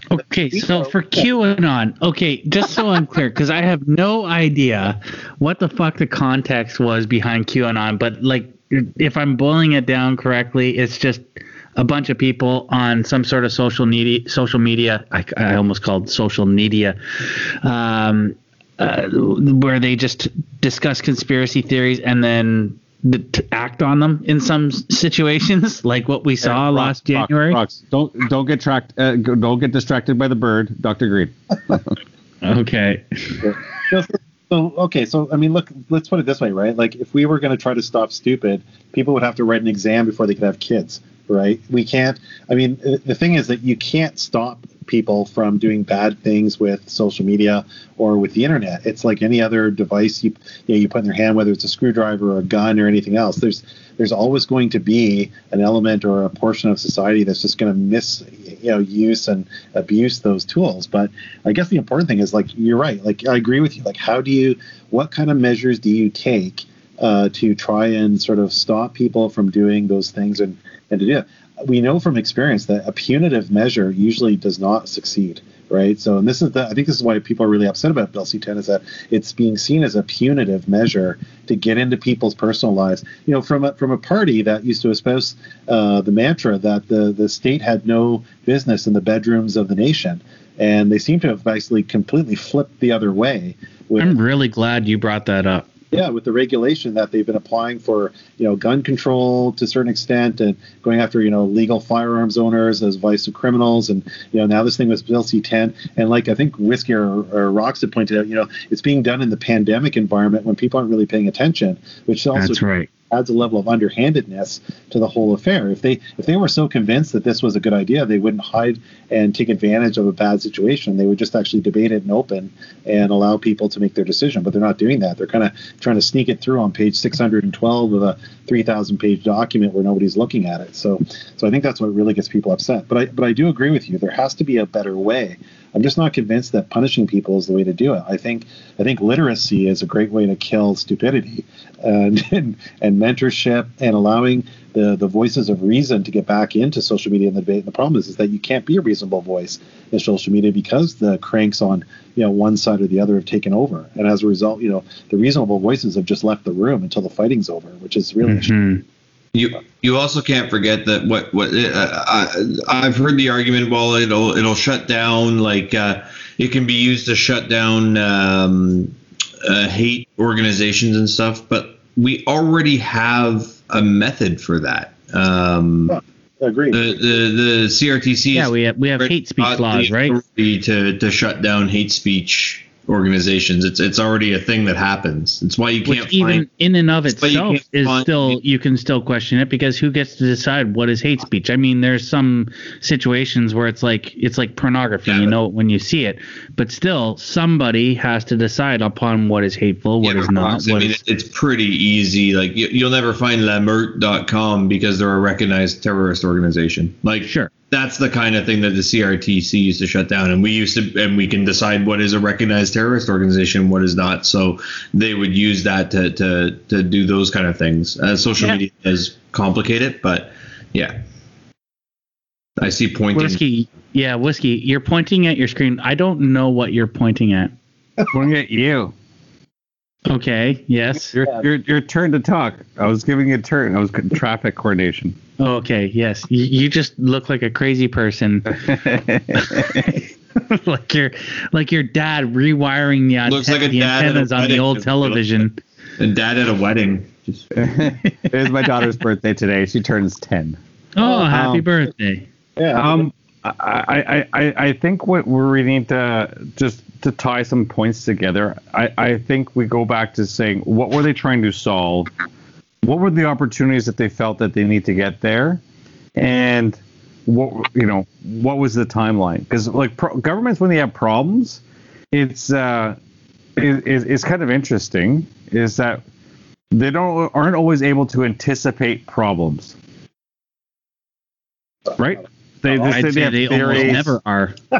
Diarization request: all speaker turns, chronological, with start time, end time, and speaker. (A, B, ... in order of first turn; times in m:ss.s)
0:00.1-0:27.6 A
0:00.5-0:00.9 B
0:26.4-0:31.9 C
0:32.4-0:33.5 A
0:33.4-1:34.2 B
1:34.0-1:35.7 A
1:35.9-2:38.5 B
1:52.3-1:52.9 A
2:38.2-2:38.8 A
2:39.3-2:56.0 D
2:55.9-2:56.9 B
2:56.7-3:06.4 D
2:58.3-3:00.2 A
3:05.8-3:21.0 A
3:07.1-3:08.4 D
3:15.1-3:15.3 D
3:20.0-3:41.0 D
3:27.2-3:27.5 A
3:42.6-3:43.4 D
3:43.1-3:47.5 A
3:48.1-3:48.9 C
3:50.1-3:51.1 A
3:51.1-3:55.2 C
3:55.4-3:58.6 A
3:58.5-3:59.9 C
3:59.3-4:05.6 A
4:03.3-4:05.2 D
4:06.0-4:07.5 D
4:07.6-4:10.6 C
4:11.0-4:12.3 A
4:11.0-4:11.3 B
4:11.3-4:11.6 C
4:12.6-4:13.1 B
4:12.7-4:22.1 C
4:22.8-4:25.6 C
4:26.2-4:33.0 C
4:33.6-4:36.0 C
4:36.7-4:39.7 C
4:42.0-4:44.2 C
4:42.8-4:44.6 A